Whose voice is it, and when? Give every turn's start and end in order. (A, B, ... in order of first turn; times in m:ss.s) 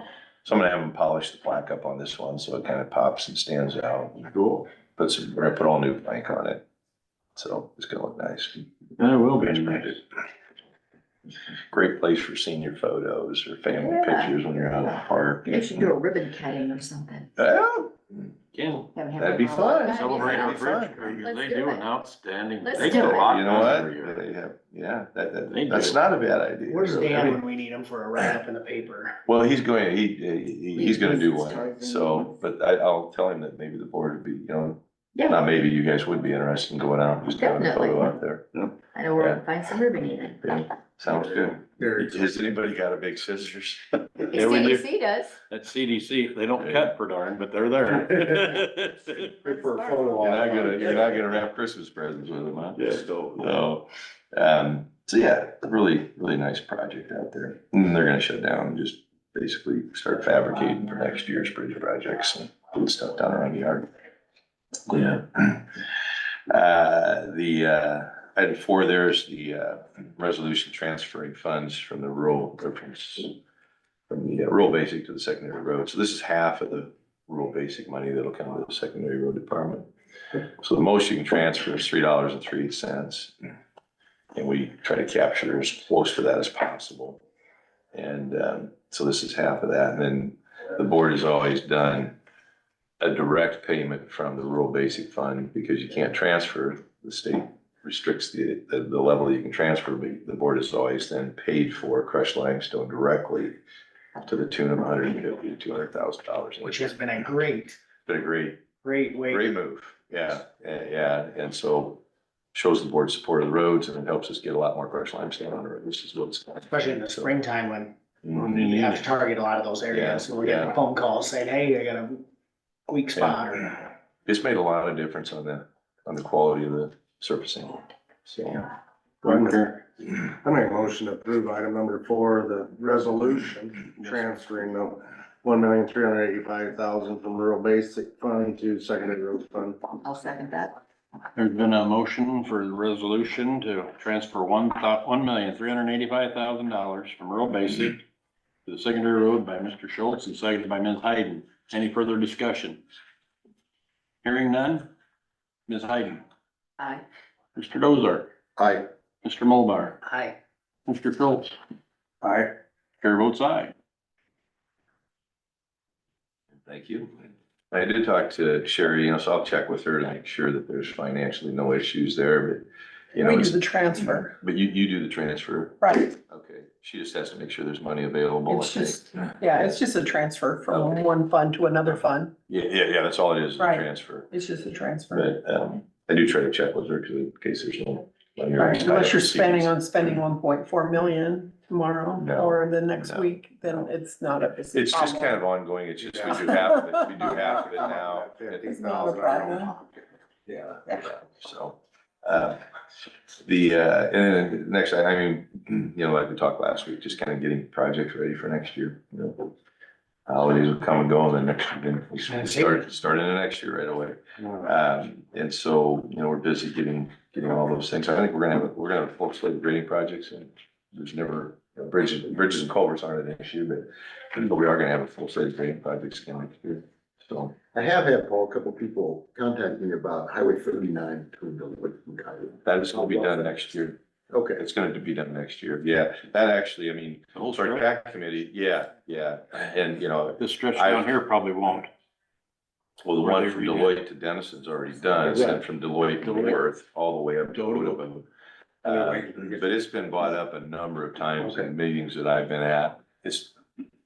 0:00.4-0:06.6 A
0:07.4-0:08.7 A
0:09.0-0:10.0 B
0:09.4-0:10.0 A
0:11.7-0:15.9 A
0:13.7-0:17.3 C
0:17.4-0:18.3 A
0:18.5-0:18.9 B
0:18.9-0:20.6 C
0:19.2-0:21.0 A
0:19.9-0:24.2 B
0:21.2-0:21.8 C
0:22.6-0:23.3 C
0:22.8-0:27.4 A
0:25.5-0:26.0 B
0:26.7-0:29.2 D
0:29.2-0:38.6 A
0:30.7-0:32.3 C
0:35.1-0:35.4 C
0:37.3-0:38.1 C
0:38.9-0:40.6 C
0:39.1-0:39.4 A
0:40.4-0:44.6 A
0:41.1-0:42.2 E
0:44.3-0:45.4 C
0:44.3-0:44.8 B
0:45.5-0:49.3 B
0:46.6-0:46.9 A
0:49.4-0:51.2 F
0:50.2-1:03.9 A
0:52.8-0:53.5 B
1:04.9-1:05.8 A
1:06.5-1:13.3 A
1:14.1-1:19.9 A
1:20.6-1:23.3 A
1:24.3-1:27.2 A
1:27.9-1:32.1 A
1:33.0-1:43.6 A
1:44.2-1:46.9 A
1:46.6-1:47.8 D
1:48.0-1:48.6 A
1:48.8-1:49.5 D
1:49.3-1:52.0 A
1:52.5-1:57.3 A
1:56.7-1:57.9 D
1:58.2-1:58.6 A
1:58.3-1:59.1 B
1:58.6-2:02.2 D
1:59.9-2:00.7 A
2:02.9-2:03.8 D
2:03.1-2:03.4 A
2:04.2-2:08.6 A
2:09.2-2:09.8 B
2:09.2-2:09.6 E
2:10.2-2:19.8 E
2:14.0-2:14.5 B
2:20.0-2:20.8 C
2:21.3-2:28.0 B
2:28.6-2:32.8 B
2:34.2-2:34.9 B
2:35.7-2:36.2 B
2:37.5-2:38.3 B
2:38.6-2:38.9 F
2:39.2-2:40.0 B
2:40.0-2:40.4 D
2:40.9-2:41.5 B
2:42.2-2:43.7 B
2:46.6-2:59.8 A
2:53.1-2:54.4 G
2:55.8-2:56.1 G
2:58.4-3:02.3 G
3:00.7-3:01.0 A
3:02.5-3:04.3 A
3:03.6-3:05.3 G
3:05.1-3:10.2 A
3:08.6-3:15.4 G
3:12.1-3:13.9 A
3:14.7-3:18.7 A
3:16.0-3:16.5 E
3:16.3-3:17.1 G
3:17.2-3:20.0 E
3:18.6-3:19.7 G
3:20.5-3:22.6 A
3:23.4-3:29.5 A
3:30.3-3:47.5 A
3:32.4-3:32.7 D
3:47.7-3:53.4 F
3:52.6-3:54.0 A
3:54.3-3:54.6 F
3:54.6-4:01.2 A
3:57.3-3:57.9 B
4:00.4-4:01.9 B
4:03.0-4:08.2 A
4:03.2-4:04.0 B
4:06.2-4:06.6 B
4:07.5-4:08.0 B
4:08.8-4:13.5 A